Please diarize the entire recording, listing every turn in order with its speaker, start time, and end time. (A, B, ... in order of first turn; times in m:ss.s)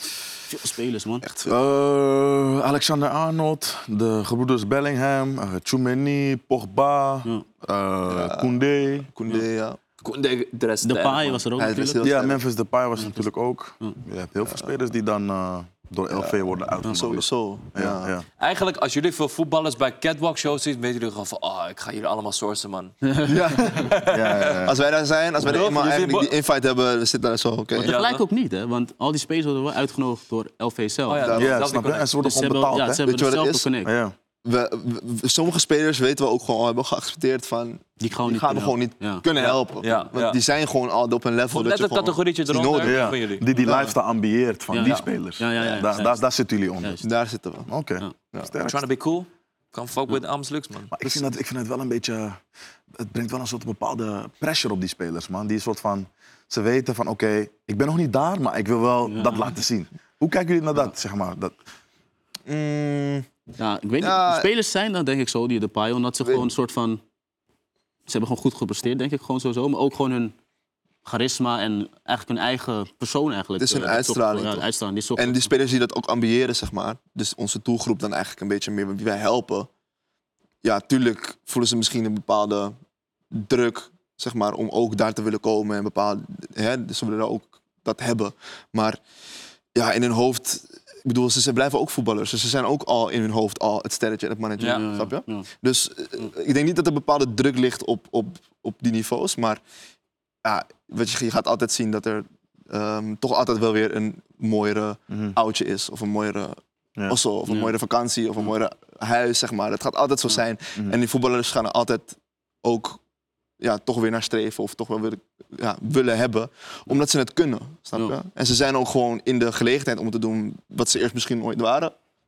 0:00.5-0:01.2 A
0:01.2-0:01.6 B
0:01.4-0:09.1 C
0:08.1-0:08.5 B
0:09.0-0:09.8 B
0:10.0-0:11.4 D
0:10.8-0:12.0 A
0:11.6-0:12.4 B
0:12.0-0:18.2 C
0:13.0-0:13.2 A
0:16.1-0:18.1 B
0:18.4-0:22.9 D
0:23.2-0:24.0 B
0:23.6-0:24.7 D
0:24.1-0:24.8 C
0:24.6-0:28.0 B
0:25.4-0:26.3 D
0:27.8-0:31.3 A
0:27.8-0:28.2 D
0:31.1-0:32.1 D
0:31.2-0:31.5 B
0:31.3-0:33.0 C
0:32.2-0:33.9 A
0:33.0-0:33.7 B
0:33.8-0:34.1 C
0:34.4-0:43.9 B
0:38.0-0:39.2 A
0:39.4-0:40.4 D
0:41.5-0:43.4 D
0:42.8-0:47.0 C
0:44.7-0:46.2 A
0:47.0-0:47.7 B
0:47.7-0:48.8 C
0:48.6-0:50.9 D
0:50.9-0:52.4 C
0:52.9-1:01.5 C
0:59.1-0:59.5 A
1:02.5-1:03.3 B
1:03.6-1:07.0 A
1:04.0-1:04.5 B
1:08.1-1:10.3 A
1:11.0-1:15.5 A
1:13.6-1:19.7 B
1:20.6-1:22.8 B
1:23.3-1:29.0 B
1:29.7-1:39.6 B
1:34.6-1:34.8 D
1:34.6-1:35.5 A
1:40.4-1:53.0 B
1:45.1-1:45.4 C
1:47.5-1:47.7 A
1:53.6-2:01.9 B